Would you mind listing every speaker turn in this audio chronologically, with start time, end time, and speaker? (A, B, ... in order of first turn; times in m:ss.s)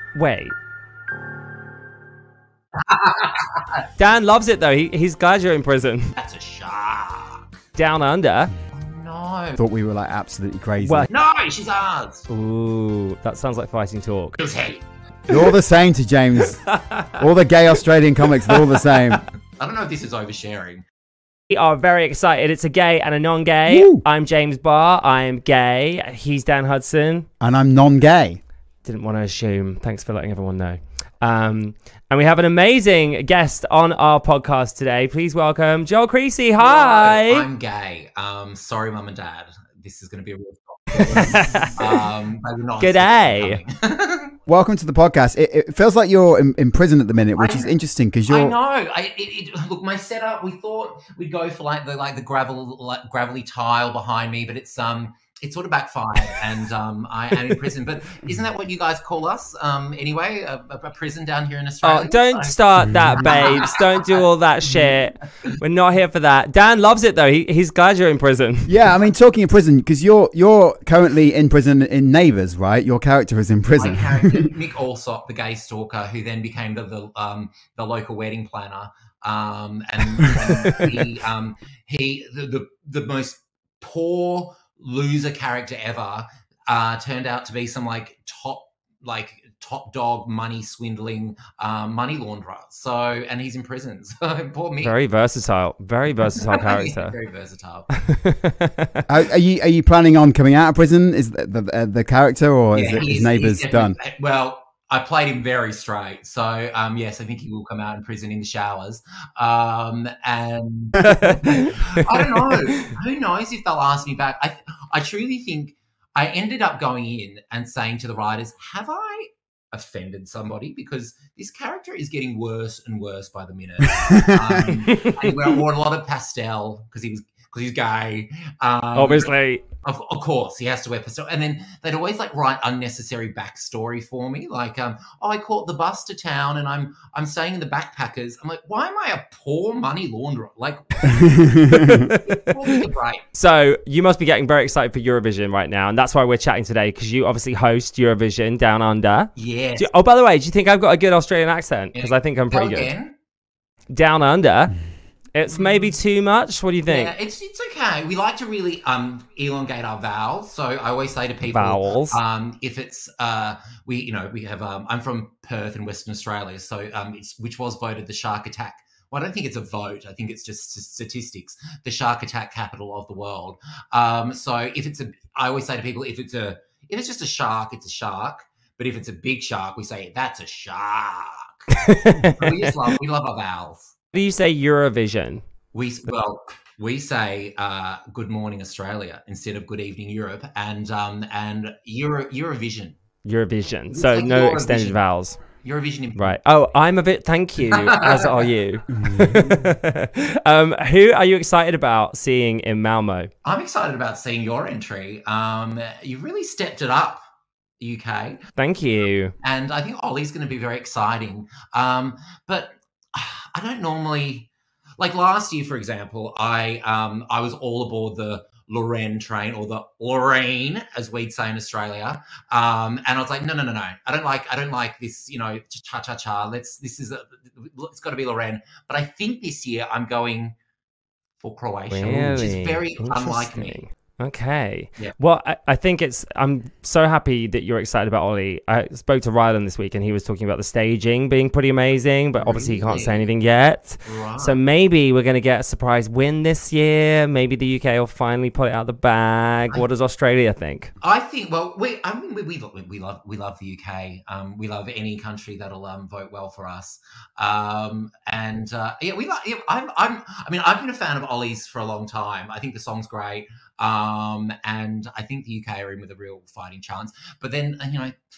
0:00.2-0:00.5 A
0:02.8-0:03.8 B
0:04.0-0:06.1 A
0:06.2-0:07.5 B
0:07.8-0:08.5 A
0:08.7-0:09.6 B
0:09.6-0:11.1 C
0:10.8-0:11.1 A
0:11.1-0:12.3 B
0:12.3-0:14.4 A
0:14.4-0:14.8 B
0:15.3-0:19.2 C
0:16.5-0:17.2 A
0:18.4-0:19.2 A
0:19.6-0:20.8 B
0:21.5-0:27.3 A
0:23.7-0:24.0 C
0:27.4-0:28.4 C
0:28.8-0:37.5 A
0:36.6-0:44.4 B
0:41.0-0:42.0 A
0:42.8-0:43.6 A
0:44.5-0:48.6 C
0:47.4-0:47.7 B
0:48.3-1:04.2 B
1:01.8-1:08.7 A
1:04.8-1:05.6 B
1:08.7-1:14.5 C
1:13.8-1:34.9 B
1:34.8-1:37.2 A
1:36.4-1:37.9 B
1:37.9-1:39.1 A
1:39.1-1:44.0 C
1:42.7-2:23.2 B
1:51.0-1:52.9 A
2:05.0-2:05.3 A
2:09.0-2:09.6 A
2:21.1-2:22.1 C
2:21.7-2:22.8 A
2:23.3-2:32.9 A
2:29.4-2:29.9 B
2:32.0-2:33.2 B
2:33.9-2:34.8 A
2:35.3-2:37.1 A
2:35.5-2:35.9 B
2:36.9-3:04.0 B
2:41.5-2:42.2 A
3:01.7-3:02.7 A
3:04.1-3:05.4 A
3:05.7-3:13.0 B
3:13.2-3:15.4 A
3:13.9-3:16.4 B
3:16.2-3:23.3 A
3:17.7-3:18.4 B
3:18.9-3:19.6 C
3:23.4-3:27.2 B
3:27.8-3:28.4 B
3:28.6-3:29.3 A
3:29.4-3:50.6 B
3:51.4-3:53.8 B
3:51.9-4:10.9 A
4:02.4-4:03.3 B
4:04.0-4:04.6 B
4:11.0-4:28.2 B